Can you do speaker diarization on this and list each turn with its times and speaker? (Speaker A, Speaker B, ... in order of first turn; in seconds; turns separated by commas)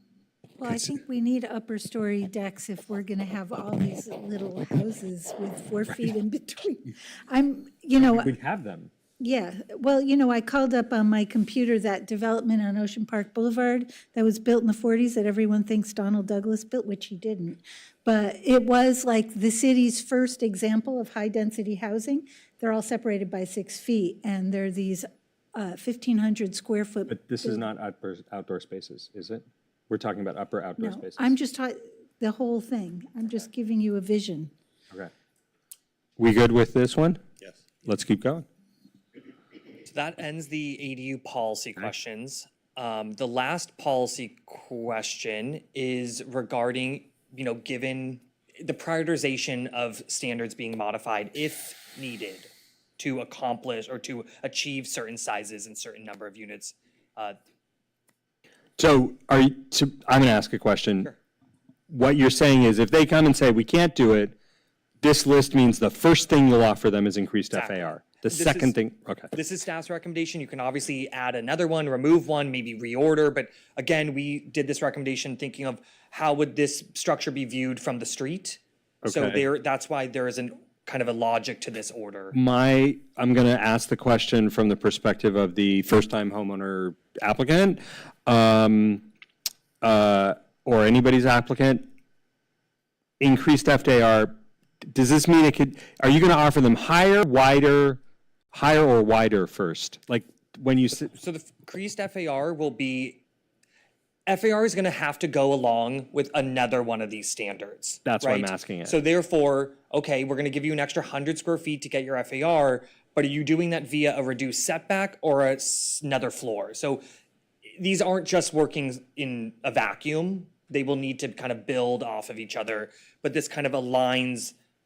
Speaker A: 0.6-8.3, Speaker B: 8.0-8.9, Speaker A: 9.2-27.7, Speaker B: 27.1-31.3, Speaker A: 30.8-34.5, Speaker B: 36.2-37.2, Speaker B: 37.8-38.5, Speaker C: 39.9-57.4, Speaker B: 58.8-61.1, Speaker B: 61.9-64.3, Speaker B: 65.0-69.3, Speaker C: 67.5-68.7, Speaker C: 69.3-82.3, Speaker B: 79.0-79.4, Speaker B: 82.3-89.0, Speaker B: 89.8-91.8, Speaker B: 93.2-94.3, Speaker B: 94.9-98.0, Speaker B: 98.5-101.1, Speaker C: 101.2-103.2, Speaker C: 104.3-117.0, Speaker B: 108.0-109.0, Speaker C: 117.8-124.5